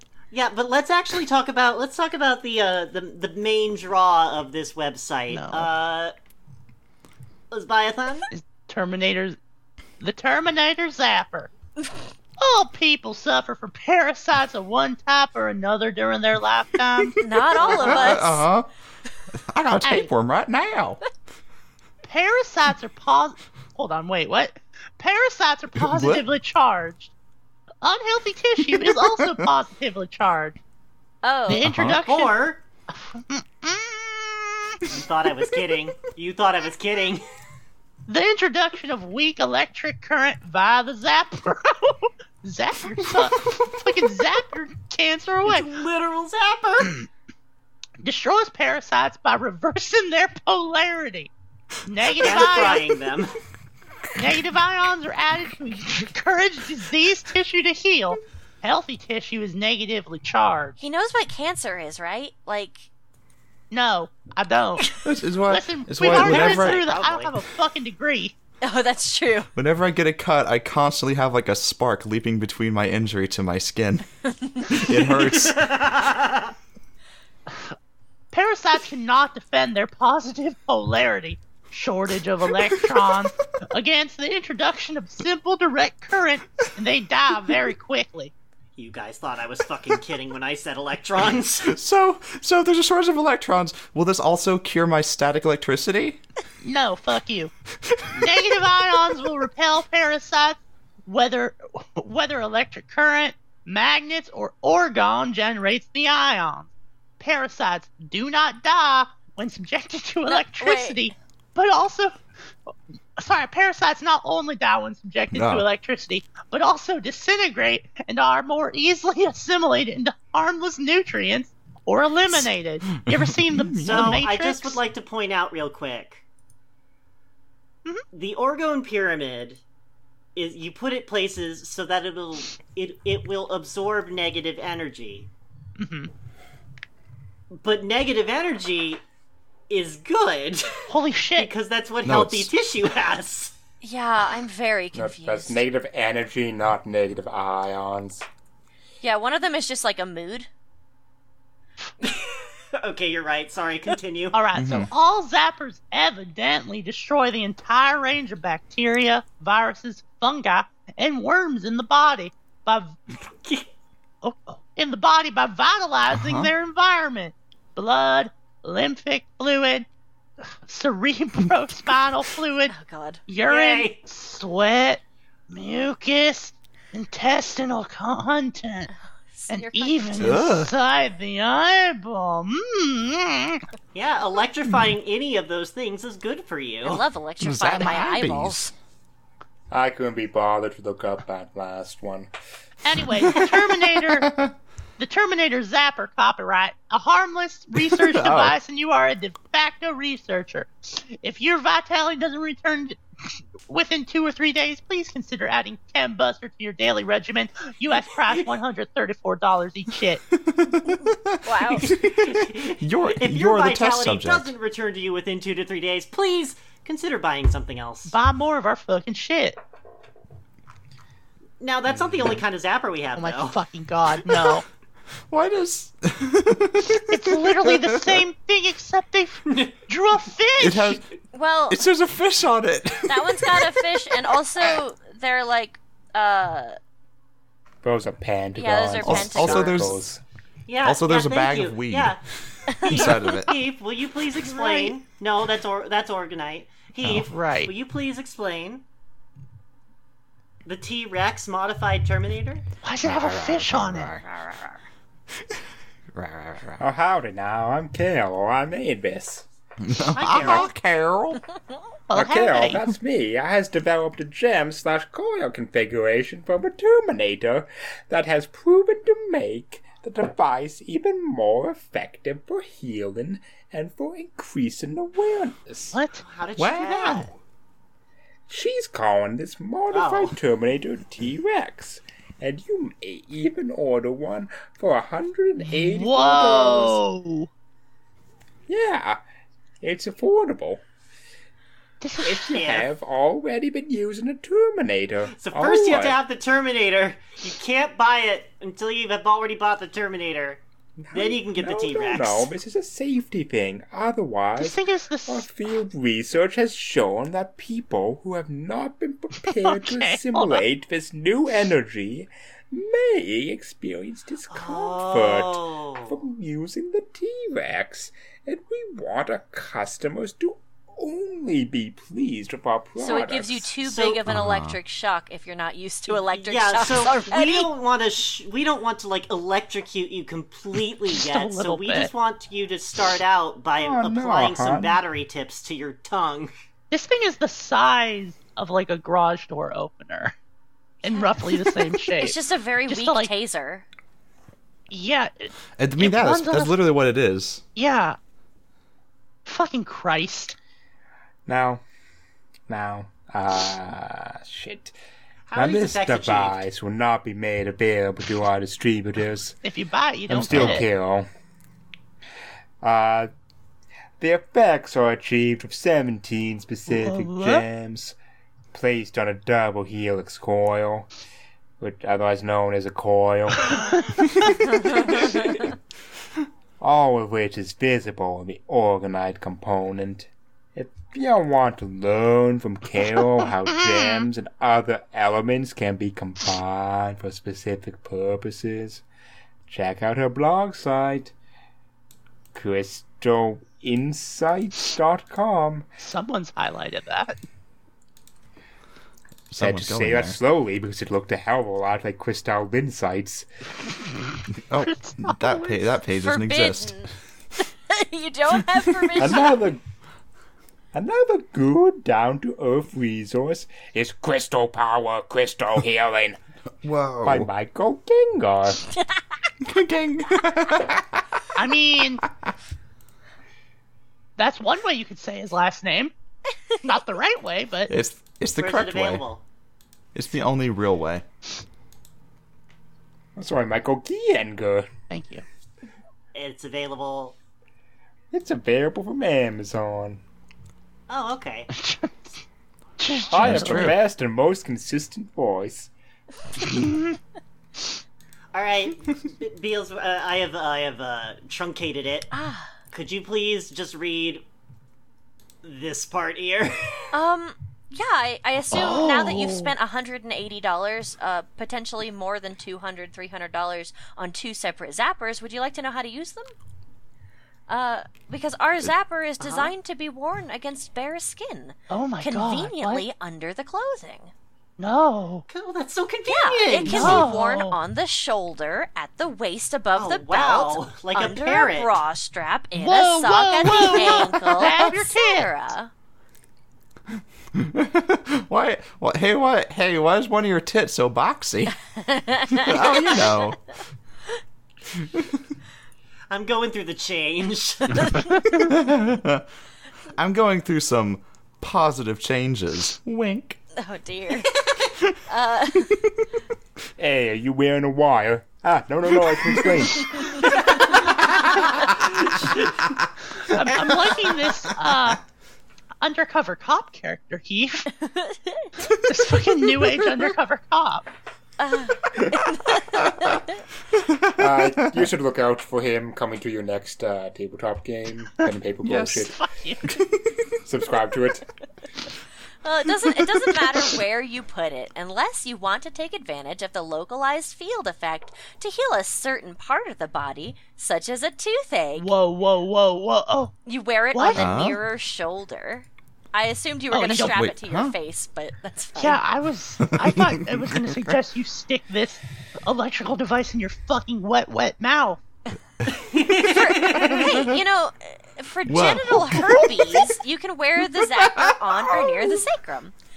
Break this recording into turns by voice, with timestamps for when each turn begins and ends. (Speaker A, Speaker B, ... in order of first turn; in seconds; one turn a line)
Speaker A: 0.3-6.1
Speaker B: 5.3-5.7
Speaker A: 7.5-8.3
Speaker B: 8.3-9.4
Speaker B: 10.0-11.5
Speaker B: 12.4-17.2
Speaker C: 17.2-18.5
Speaker D: 17.6-18.7
Speaker D: 19.3-21.0
Speaker B: 22.0-27.1
Speaker D: 25.8-26.3
Speaker B: 27.8-30.6
Speaker D: 28.6-29.5
Speaker C: 31.2-31.7
Speaker B: 31.5-34.9
Speaker D: 31.6-32.0
Speaker A: 32.0-32.6
Speaker A: 34.9-37.2
Speaker B: 38.1-45.7
Speaker A: 45.5-47.0
Speaker B: 48.0-51.3
Speaker B: 51.9-52.9
Speaker A: 52.2-53.3
Speaker B: 54.2-60.8
Speaker C: 60.8-62.9
Speaker B: 63.7-65.0
Speaker D: 65.0-66.9
Speaker B: 65.5-68.3
Speaker A: 66.0-67.4
Speaker C: 68.6-69.5
Speaker D: 69.6-74.0
Speaker D: 74.6-75.7
Speaker A: 74.8-76.5
Speaker B: 78.3-88.3
Speaker D: 82.7-83.0
Speaker A: 88.8-91.8
Speaker D: 91.7-96.2
Speaker B: 96.6-97.5
Speaker D: 97.9-98.5
Speaker B: 98.1-124.8
Speaker C: 110.2-111.1
Speaker D: 115.3-115.7
Speaker D: 122.3-124.2
Speaker A: 123.8-126.2
Speaker A: 128.1-129.6
Speaker A: 130.4-135.3
Speaker B: 135.8-136.1
Speaker A: 137.5-139.0
Speaker A: 139.7-143.5
Speaker B: 140.9-141.5
Speaker D: 142.1-142.5
Speaker C: 143.8-145.6
Speaker E: 144.9-148.3
Speaker C: 149.0-150.5
Speaker A: 152.0-154.4
Speaker B: 154.3-163.0
Speaker D: 154.6-154.9
Speaker A: 163.3-163.7
Speaker B: 164.2-169.9
Speaker D: 166.1-166.5
Speaker B: 170.6-172.7
Speaker C: 172.7-173.2
Speaker B: 173.3-178.9
Speaker A: 173.5-174.0
Speaker C: 179.3-180.5
Speaker B: 179.5-183.6
Speaker D: 180.2-180.7
Speaker A: 183.9-187.0
Speaker C: 186.8-188.7
Speaker D: 187.4-188.7
Speaker E: 189.7-192.3
Speaker B: 192.8-194.3
Speaker D: 194.1-194.5
Speaker B: 195.0-203.0
Speaker D: 197.8-198.6
Speaker B: 203.7-210.2
Speaker D: 210.5-214.5
Speaker C: 211.4-211.9
Speaker A: 211.9-218.1
Speaker B: 218.1-219.6
Speaker A: 221.6-223.6
Speaker B: 223.2-224.7
Speaker D: 225.3-228.2
Speaker B: 226.9-231.0
Speaker A: 229.5-229.8
Speaker D: 230.6-231.0
Speaker C: 231.3-231.8
Speaker D: 231.7-233.9
Speaker C: 233.1-236.8
Speaker E: 237.8-240.2
Speaker C: 238.6-239.9
Speaker D: 239.0-240.0
Speaker A: 240.7-242.2
Speaker D: 240.8-242.2
Speaker C: 242.7-243.1
Speaker A: 242.8-248.8
Speaker D: 242.8-243.5
Speaker B: 244.5-244.9
Speaker B: 247.1-247.7
Speaker A: 250.7-252.7
Speaker B: 252.8-254.2
Speaker E: 253.1-254.8
Speaker D: 256.1-256.8
Speaker E: 256.8-259.5
Speaker D: 259.8-261.4
Speaker A: 260.1-260.7
Speaker B: 262.1-262.9
Speaker E: 262.1-276.0
Speaker B: 275.9-276.2
Speaker A: 276.2-277.3
Speaker D: 276.6-277.3
Speaker E: 278.5-287.0
Speaker A: 279.9-280.4
Speaker B: 285.6-287.5
Speaker E: 288.7-289.2
Speaker E: 289.8-290.8
Speaker B: 292.0-292.6
Speaker E: 292.2-296.2
Speaker A: 292.5-292.9
Speaker A: 295.3-300.6
Speaker E: 301.0-323.7
Speaker A: 301.1-302.5
Speaker B: 304.6-305.5
Speaker B: 309.4-310.6
Speaker A: 314.5-316.2
Speaker C: 323.0-327.7
Speaker A: 323.9-324.2
Speaker D: 324.3-324.8
Speaker A: 326.1-336.5
Speaker B: 331.2-332.1
Speaker E: 333.8-335.0
Speaker B: 336.9-340.4
Speaker B: 341.0-342.4
Speaker C: 341.1-341.4
Speaker C: 342.1-343.9
Speaker B: 342.9-343.3
Speaker B: 344.9-346.8
Speaker D: 345.8-347.6
Speaker B: 347.8-348.2
Speaker B: 349.5-350.6
Speaker E: 351.5-351.8
Speaker E: 352.7-354.9
Speaker A: 355.5-356.6
Speaker E: 355.6-359.6
Speaker B: 359.6-360.9
Speaker E: 360.3-361.3
Speaker D: 360.5-360.8
Speaker E: 362.8-363.3
Speaker E: 364.2-368.2
Speaker B: 366.9-367.6
Speaker E: 368.7-371.1
Speaker E: 371.8-374.1
Speaker B: 373.8-374.2
Speaker E: 374.8-375.7
Speaker E: 376.8-389.0
Speaker B: 383.7-384.3
Speaker E: 389.7-391.3
Speaker E: 392.5-395.9
Speaker B: 396.0-397.4
Speaker D: 399.5-400.4
Speaker E: 399.6-403.5
Speaker D: 404.7-407.0
Speaker B: 404.8-405.8
Speaker C: 406.2-409.6
Speaker E: 409.2-409.8
Speaker E: 410.9-416.4
Speaker D: 416.8-417.5
Speaker E: 417.2-418.8
Speaker D: 419.6-421.1
Speaker B: 421.6-422.2
Speaker B: 424.4-426.1
Speaker B: 426.8-427.9
Speaker D: 427.9-429.2
Speaker A: 428.6-429.4
Speaker D: 430.1-431.2
Speaker E: 433.4-434.9
Speaker B: 435.1-435.4
Speaker A: 436.3-437.4
Speaker E: 438.3-440.2
Speaker A: 441.1-441.7
Speaker B: 441.7-442.3
Speaker B: 443.0-444.0
Speaker E: 443.3-445.9
Speaker D: 443.4-444.0
Speaker B: 446.6-447.1
Speaker A: 448.5-452.3
Speaker C: 452.3-452.7
Speaker A: 452.9-454.4
Speaker A: 455.6-457.1
Speaker C: 457.1-466.5
Speaker B: 458.7-459.7
Speaker C: 467.7-474.3
Speaker A: 469.4-469.7
Speaker B: 471.9-473.1
Speaker B: 474.8-475.4
Speaker A: 475.5-477.3
Speaker C: 476.3-485.9
Speaker B: 476.8-477.8
Speaker A: 480.0-482.0
Speaker B: 482.8-485.5
Speaker D: 487.5-491.8
Speaker C: 492.0-493.5
Speaker D: 492.5-493.6
Speaker D: 495.0-495.4
Speaker A: 496.3-498.3
Speaker D: 498.6-499.4
Speaker D: 500.1-503.6
Speaker C: 503.8-504.6
Speaker C: 505.3-506.0
Speaker E: 507.0-510.7
Speaker D: 509.4-509.9
Speaker A: 512.2-512.6
Speaker B: 513.5-515.2
Speaker D: 513.7-514.2
Speaker B: 516.0-517.9
Speaker C: 518.0-518.7
Speaker B: 518.9-521.0
Speaker C: 521.6-523.6
Speaker D: 524.0-525.1
Speaker E: 524.3-529.4
Speaker D: 528.8-529.3
Speaker B: 529.2-530.0
Speaker D: 529.9-530.5
Speaker E: 530.6-531.5
Speaker C: 532.6-542.1
Speaker B: 542.0-543.5
Speaker C: 543.7-549.2
Speaker B: 544.1-544.4
Speaker D: 544.3-544.8
Speaker B: 546.9-547.4
Speaker D: 547.2-547.9
Speaker B: 549.0-555.2
Speaker D: 549.8-551.2
Speaker A: 556.1-557.5
Speaker C: 556.3-562.9
Speaker D: 557.0-557.6
Speaker D: 558.7-560.1
Speaker D: 561.0-562.4